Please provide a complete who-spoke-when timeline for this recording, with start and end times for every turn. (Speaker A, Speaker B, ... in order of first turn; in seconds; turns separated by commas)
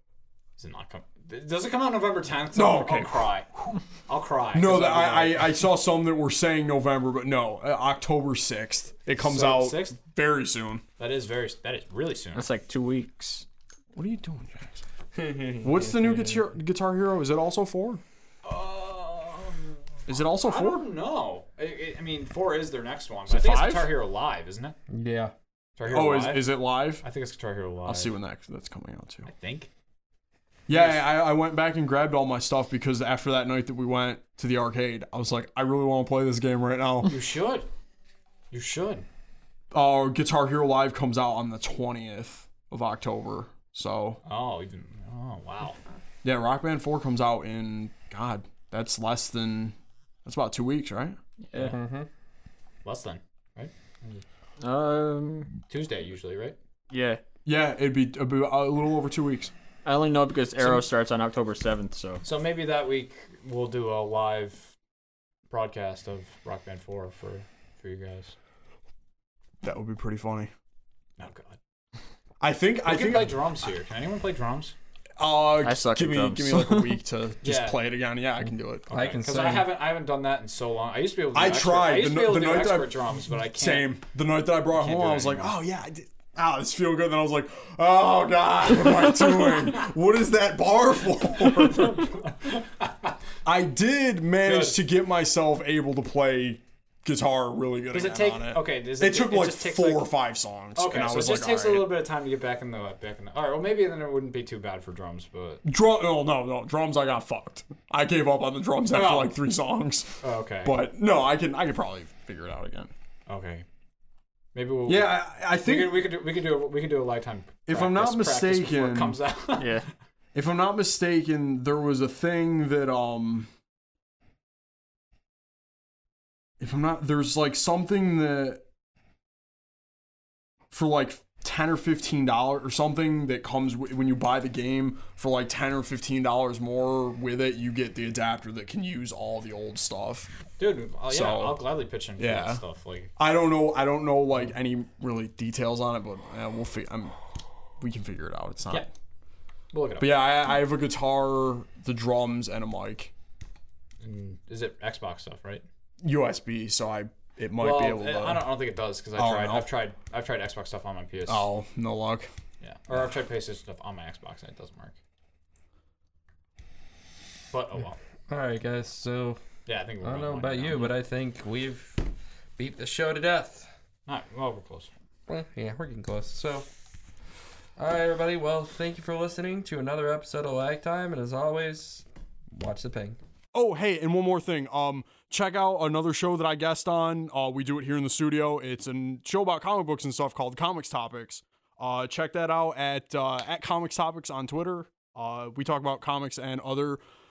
Speaker A: 0.6-3.5, Speaker B: 2.5-3.8, Speaker A: 4.1-5.6, Speaker B: 4.5-10.8, Speaker A: 9.2-10.0, Speaker A: 11.0-12.4, Speaker C: 12.3-13.4, Speaker B: 13.9-14.8, Speaker D: 15.1-16.4, Speaker B: 15.6-18.0, Speaker A: 18.4-19.8, Speaker B: 20.1-20.8, Speaker A: 20.3-24.7, Speaker B: 23.3-23.9, Speaker D: 24.9-25.3, Speaker A: 25.8-28.1, Speaker B: 25.8-27.0, Speaker B: 27.9-29.3, Speaker A: 29.2-29.7, Speaker B: 30.7-37.1, Speaker A: 30.7-31.1, Speaker A: 37.0-37.7, Speaker A: 38.5-39.0, Speaker B: 39.7-44.2, Speaker A: 44.2-45.8, Speaker B: 46.2-51.2, Speaker A: 51.5-51.8, Speaker D: 51.6-52.1, Speaker A: 52.8-54.2, Speaker C: 54.6-55.5, Speaker A: 55.7-56.5, Speaker C: 56.9-57.2, Speaker B: 57.4-59.5, Speaker C: 59.8-62.2, Speaker A: 62.2-64.7, Speaker A: 65.5-68.3, Speaker B: 69.6-70.5, Speaker A: 71.2-71.6, Speaker B: 72.4-73.4, Speaker A: 72.8-74.7, Speaker B: 75.2-78.9, Speaker C: 75.6-76.9, Speaker A: 77.4-77.8, Speaker D: 78.9-79.7, Speaker A: 78.9-83.9, Speaker B: 81.3-92.2, Speaker A: 84.7-85.5, Speaker A: 91.8-92.9, Speaker B: 93.4-101.9, Speaker A: 94.4-94.8, Speaker A: 97.9-100.1, Speaker A: 100.8-105.6, Speaker B: 105.6-112.9, Speaker A: 108.9-109.3, Speaker A: 110.2-110.8, Speaker A: 113.3-113.7, Speaker A: 114.5-119.8, Speaker B: 114.8-116.1, Speaker B: 117.7-119.2, Speaker C: 119.6-119.8, Speaker B: 120.3-123.5, Speaker B: 126.6-128.6, Speaker B: 130.7-140.3, Speaker A: 140.6-143.1, Speaker B: 141.1-142.6, Speaker B: 143.2-147.1, Speaker B: 147.8-148.9, Speaker A: 149.7-150.2, Speaker B: 150.0-153.1, Speaker A: 154.0-155.6, Speaker B: 156.0-158.5, Speaker A: 157.6-161.5, Speaker B: 159.2-159.7, Speaker B: 161.3-162.3, Speaker A: 162.6-165.0, Speaker A: 167.5-168.0, Speaker D: 168.3-169.4, Speaker A: 169.7-170.9, Speaker D: 170.0-172.1, Speaker D: 172.6-173.7, Speaker A: 174.1-174.9, Speaker D: 175.3-176.7, Speaker D: 177.8-183.2, Speaker B: 183.5-197.0